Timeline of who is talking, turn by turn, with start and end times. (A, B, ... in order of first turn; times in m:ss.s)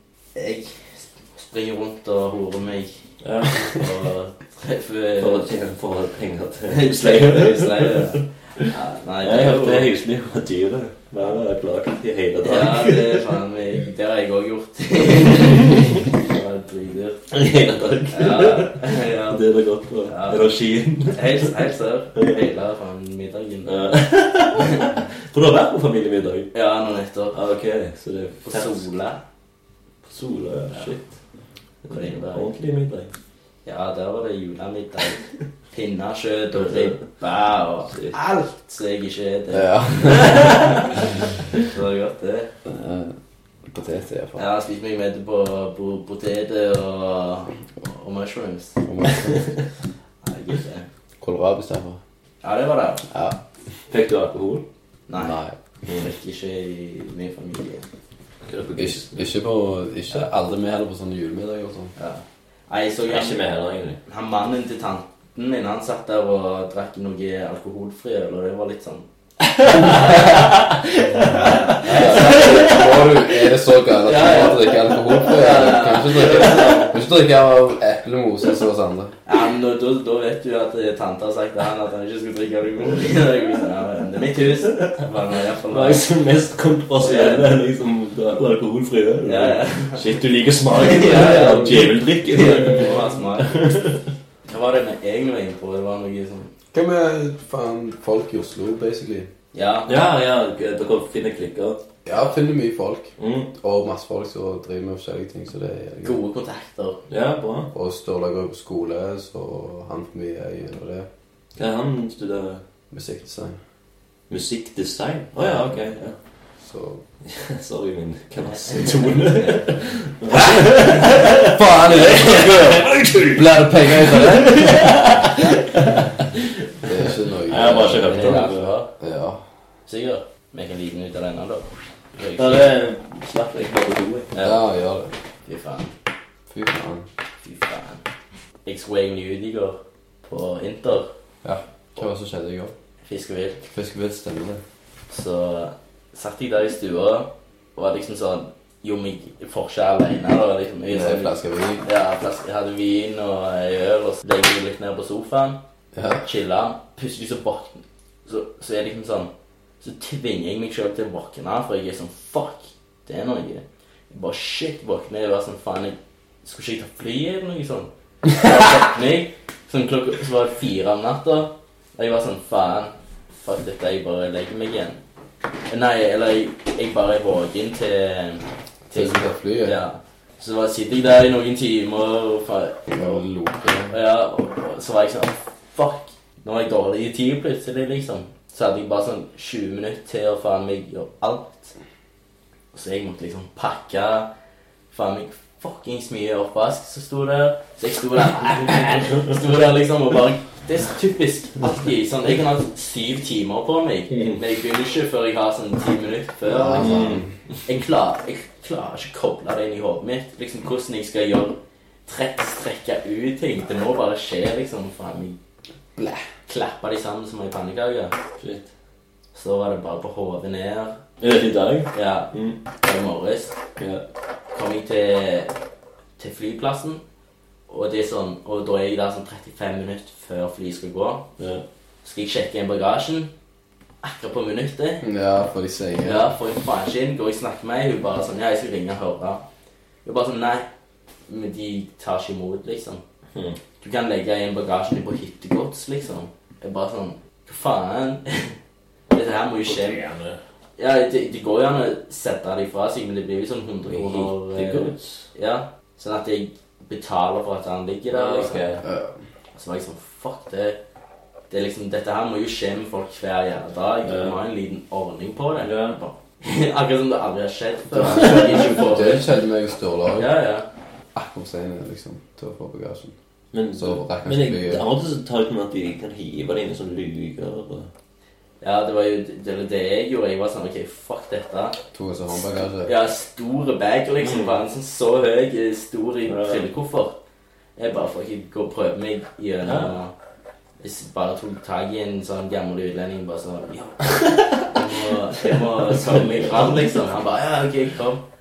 0:00.3-0:03.0 A
0:03.2-0:03.9 B
0:03.6-0:05.5 A
0:05.2-0:13.3 B
0:06.7-0:09.9 A
0:12.4-0:17.3 A
0:17.3-0:21.5 B
0:18.1-0:19.4 A
0:20.1-0:20.5 A
0:21.0-0:24.0 A
0:23.6-0:26.5 B
0:26.5-0:27.4 A
0:27.3-0:28.8 B
0:28.4-0:29.2 A
0:30.0-0:31.1 B
0:31.8-0:33.1 B
0:31.9-0:32.5 A
0:33.6-0:35.2 A
0:35.7-0:42.5 A
0:36.6-0:37.0 B
0:37.9-0:38.1 B
0:39.5-0:40.4 C
0:40.2-0:40.6 B
0:42.6-0:43.1 C
0:43.7-0:44.4 C
0:44.4-0:48.8 A
0:48.8-0:49.5 C
0:50.2-0:50.9 A
0:51.2-0:52.0 C
0:52.4-0:53.0 A
0:53.1-0:53.4 C
0:53.9-0:54.6 B
0:55.1-0:57.8 A
0:55.2-0:55.6 C
0:58.4-0:59.2 B
0:58.8-1:01.9 C
1:02.0-1:03.5 A
1:03.1-1:04.0 B
1:04.0-1:09.0 A
1:09.6-1:12.8 B
1:09.7-1:10.5 A
1:11.3-1:12.8 A
1:11.8-1:19.2 C
1:14.0-1:17.0 A
1:19.2-1:26.0 A
1:25.7-1:34.0 B
1:27.0-1:27.5 A
1:29.2-1:30.0 A
1:30.7-1:33.6 A
1:34.5-1:36.5 A
1:36.7-1:39.3 C
1:39.5-1:39.9 A
1:39.9-1:41.8 B
1:42.0-1:46.2 C
1:43.2-1:43.5 B
1:46.0-1:47.0 A
1:47.1-1:47.7 B
1:47.7-1:51.1 C
1:51.6-1:52.6 B
1:52.9-1:53.6 C
1:54.3-1:56.2 B
1:55.4-1:55.8 C
1:56.6-1:57.0 C
1:57.2-2:08.7 B
2:01.3-2:05.0 C
2:06.8-2:09.4 C
2:08.0-2:08.9 A
2:09.9-2:12.7 A
2:12.4-2:14.3 B
2:14.3-2:14.6 A
2:14.4-2:15.1 C
2:15.4-2:15.9 A
2:16.5-2:17.1 C
2:17.4-2:18.0 A
2:18.6-2:21.1 A
2:21.4-2:22.7 C
2:23.0-2:23.6 A
2:23.7-2:24.6 C
2:25.1-2:35.6 A
2:30.9-2:31.8 C
2:35.9-2:36.2 C
2:36.2-2:55.0 A
2:55.7-3:03.2 A
2:58.9-2:59.8 C
3:02.9-3:04.0 C
3:03.9-3:11.7 A
3:12.7-3:14.3 A
3:14.9-3:27.1 A
3:26.4-3:27.3 C
3:26.8-3:27.2 B
3:27.6-3:35.4 A
3:36.0-3:36.3 C
3:36.5-3:38.2 A
3:38.4-3:38.7 B
3:39.3-3:41.0 A
3:41.2-3:42.6 B
3:41.9-3:43.5 A
3:43.8-3:44.0 B
3:44.5-3:45.5 A
3:46.2-3:47.0 A
3:47.7-3:51.2 A
3:51.4-3:51.6 B
3:52.0-3:53.3 A
3:54.0-3:55.0 A
3:55.0-3:56.3 C
3:56.0-3:59.4 A
4:00.0-4:00.7 A
4:01.3-4:03.0 A
4:03.8-4:08.6 A
4:09.1-4:10.0 A
4:09.6-4:10.4 B
4:10.8-4:18.7 A
4:13.9-4:15.3 B
4:18.1-4:18.8 B
4:18.8-4:19.1 C
4:19.5-4:20.8 A
4:21.5-4:29.3 A
4:24.0-4:24.4 B
4:25.6-4:26.0 B
4:27.9-4:30.3 C
4:30.2-4:30.7 A
4:31.1-4:33.1 C
4:33.5-4:37.9 B
4:33.8-4:34.8 C
4:38.6-4:41.8 A
4:41.9-4:42.9 C
4:42.8-4:47.2 A
4:44.2-4:44.6 B
4:46.3-4:46.6 B
4:47.8-4:50.1 A
4:49.6-4:49.9 B
4:50.8-4:58.2 A
4:54.1-4:54.7 B
4:55.4-4:56.8 B